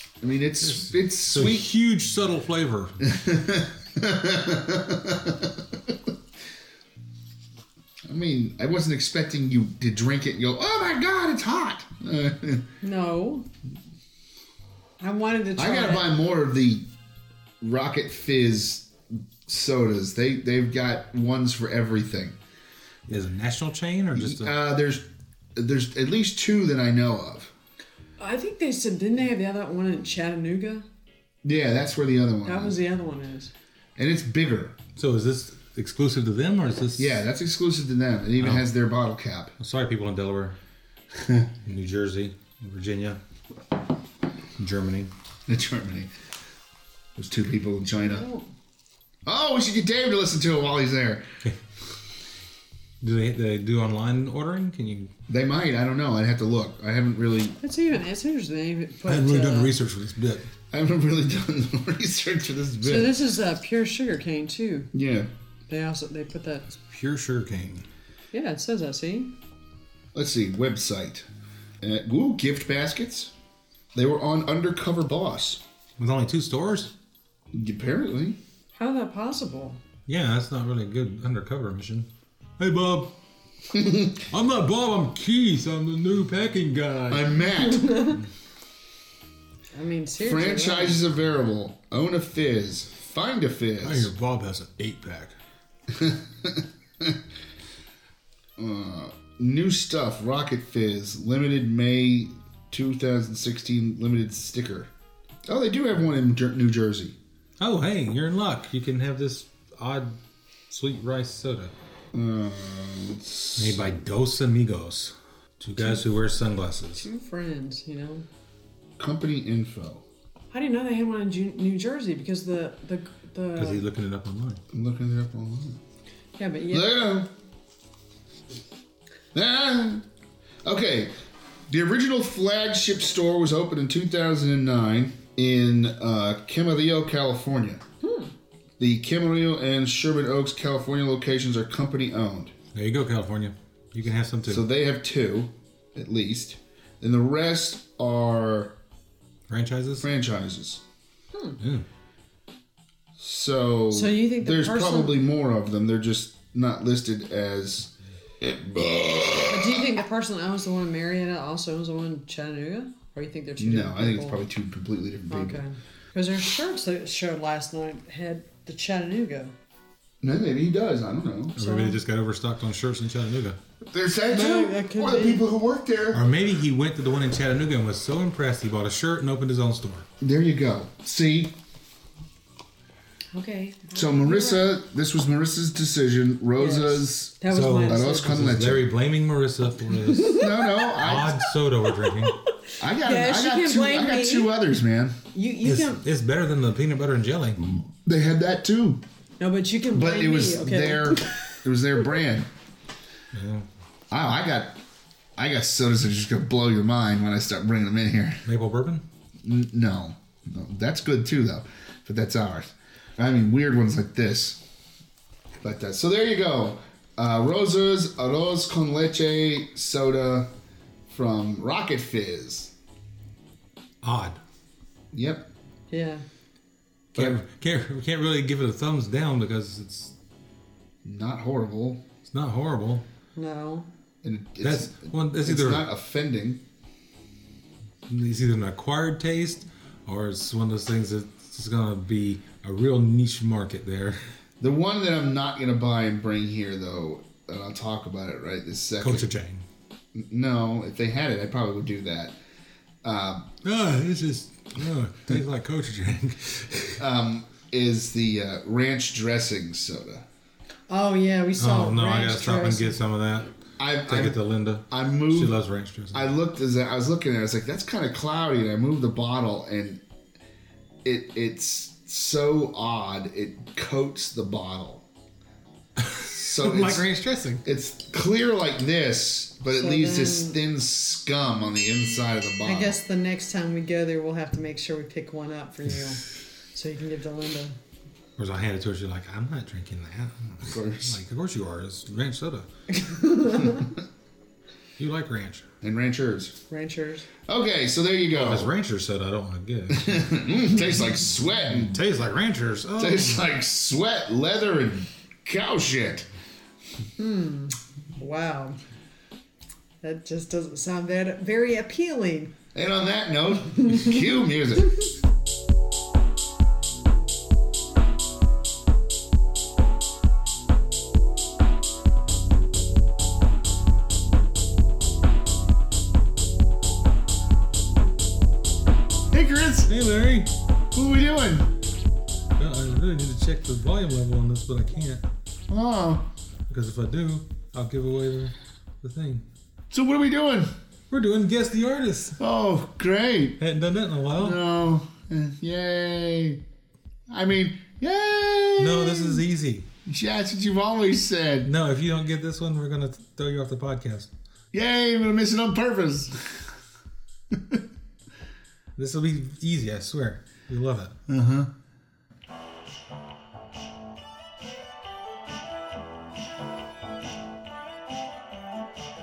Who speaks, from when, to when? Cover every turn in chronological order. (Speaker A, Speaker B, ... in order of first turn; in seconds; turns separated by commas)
Speaker A: 0.2-1.7, Speaker B: 0.6-3.0, Speaker A: 3.0-6.0, Speaker A: 8.1-12.7, Speaker C: 12.8-13.4, Speaker C: 15.0-16.1, Speaker A: 15.6-16.9, Speaker A: 17.6-18.9, Speaker A: 19.4-22.4, Speaker B: 23.1-24.5, Speaker A: 24.1-27.5, Speaker C: 28.2-30.9, Speaker A: 31.4-32.8, Speaker C: 32.4-33.5, Speaker A: 34.0-34.8, Speaker B: 35.0-37.2, Speaker A: 37.0-39.5, Speaker B: 38.4-38.7, Speaker B: 39.6-40.5, Speaker A: 41.1-41.5, Speaker B: 41.6-43.2, Speaker B: 44.6-45.1, Speaker A: 45.5-46.1, Speaker A: 47.1-48.2, Speaker C: 48.0-48.5, Speaker A: 49.2-51.3, Speaker B: 53.0-55.1, Speaker A: 55.3-57.6, Speaker C: 57.6-59.7, Speaker B: 59.0-60.5, Speaker A: 60.7-63.2, Speaker C: 62.8-64.9, Speaker A: 64.9-65.3, Speaker C: 65.7-66.7, Speaker B: 66.9-67.8, Speaker C: 68.3-69.3, Speaker A: 70.1-71.3, Speaker A: 71.8-73.3, Speaker A: 73.9-75.6, Speaker B: 76.0-76.9, Speaker A: 77.5-78.4, Speaker C: 78.7-79.8, Speaker B: 80.1-83.1, Speaker A: 83.7-84.2, Speaker B: 84.3-87.5, Speaker A: 87.1-88.1, Speaker C: 87.6-88.2, Speaker C: 89.7-91.0, Speaker A: 90.2-94.1, Speaker B: 93.8-95.3, Speaker A: 95.9-97.2, Speaker A: 98.6-104.9, Speaker A: 105.5-107.2, Speaker B: 107.6-110.1, Speaker B: 110.7-111.7, Speaker A: 112.1-113.8, Speaker B: 113.6-117.0, Speaker C: 117.0-118.2, Speaker A: 119.0-120.0, Speaker C: 120.5-123.8, Speaker B: 123.6-124.6, Speaker A: 124.7-125.8, Speaker C: 126.4-126.9, Speaker A: 126.7-127.3, Speaker A: 129.3-130.1, Speaker A: 130.6-131.1, Speaker A: 131.7-137.8, Speaker C: 138.0-138.3, Speaker A: 138.8-142.5, Speaker B: 142.7-144.6, Speaker A: 144.5-148.8, Speaker B: 149.5-150.1, Speaker A: 150.0-150.8, Speaker C: 151.3-151.6, Speaker B: 151.6-151.8, Speaker A: 153.2-159.9, Speaker C: 153.9-155.2, Speaker C: 159.5-164.4, Speaker A: 163.6-165.6, Speaker C: 165.3-169.5, Speaker A: 170.2-171.6, Speaker C: 171.6-172.0, Speaker B: 171.6-173.6, Speaker A: 173.9-176.2, Speaker C: 174.3-175.4, Speaker B: 176.1-180.1, Speaker A: 180.2-181.6, Speaker C: 183.3-184.7, Speaker A: 183.9-188.9, Speaker C: 186.6-188.5, Speaker B: 187.5-192.4, Speaker C: 190.0-190.9, Speaker A: 190.3-191.4, Speaker C: 192.0-194.5, Speaker A: 192.8-195.2, Speaker C: 195.3-196.0, Speaker B: 195.6-197.6, Speaker A: 198.0-199.0, Speaker C: 199.4-201.4, Speaker A: 199.9-202.5, Speaker B: 203.3-203.7, Speaker A: 204.1-204.8, Speaker A: 205.3-208.4, Speaker B: 208.4-209.0, Speaker A: 209.4-214.6, Speaker A: 215.6-220.5, Speaker A: 221.1-222.7, Speaker B: 224.0-224.4, Speaker A: 225.1-225.5, Speaker C: 225.9-226.2, Speaker A: 227.1-227.4, Speaker B: 227.1-230.1, Speaker A: 231.0-232.0, Speaker B: 232.2-233.0, Speaker C: 233.3-233.9, Speaker A: 234.2-236.6, Speaker B: 234.6-235.8, Speaker B: 238.1-244.2, Speaker A: 244.6-249.3, Speaker B: 249.0-249.6, Speaker A: 250.1-252.3, Speaker A: 253.0-253.5, Speaker B: 253.6-257.0, Speaker A: 257.0-260.2, Speaker C: 260.9-263.0, Speaker B: 261.6-263.5, Speaker A: 263.8-265.6, Speaker B: 264.1-266.3, Speaker A: 266.1-270.0, Speaker A: 271.0-275.0, Speaker B: 276.0-277.6, Speaker A: 276.3-277.1, Speaker A: 277.6-283.0, Speaker C: 279.7-280.6, Speaker C: 282.6-287.8, Speaker B: 288.4-292.7, Speaker A: 290.6-291.2, Speaker C: 292.9-293.9, Speaker B: 295.0-295.7, Speaker A: 295.8-296.6, Speaker C: 296.7-297.3, Speaker A: 297.5-298.7, Speaker B: 298.3-300.5, Speaker A: 299.9-302.0, Speaker B: 301.7-303.4, Speaker A: 303.0-306.3, Speaker C: 307.2-308.8, Speaker C: 310.0-312.5, Speaker A: 312.7-315.0, Speaker A: 329.3-329.9, Speaker B: 329.9-330.5, Speaker A: 330.9-331.7, Speaker B: 332.6-335.2, Speaker A: 335.7-336.3, Speaker B: 336.7-339.4, Speaker A: 339.9-340.7, Speaker B: 341.1-342.4, Speaker A: 342.4-343.6, Speaker B: 343.6-344.6, Speaker A: 344.3-346.6, Speaker A: 347.3-349.4, Speaker B: 348.8-349.9, Speaker A: 350.1-351.7, Speaker B: 351.6-354.3, Speaker A: 354.7-356.6, Speaker A: 357.5-357.8, Speaker B: 359.0-361.1, Speaker A: 361.3-361.7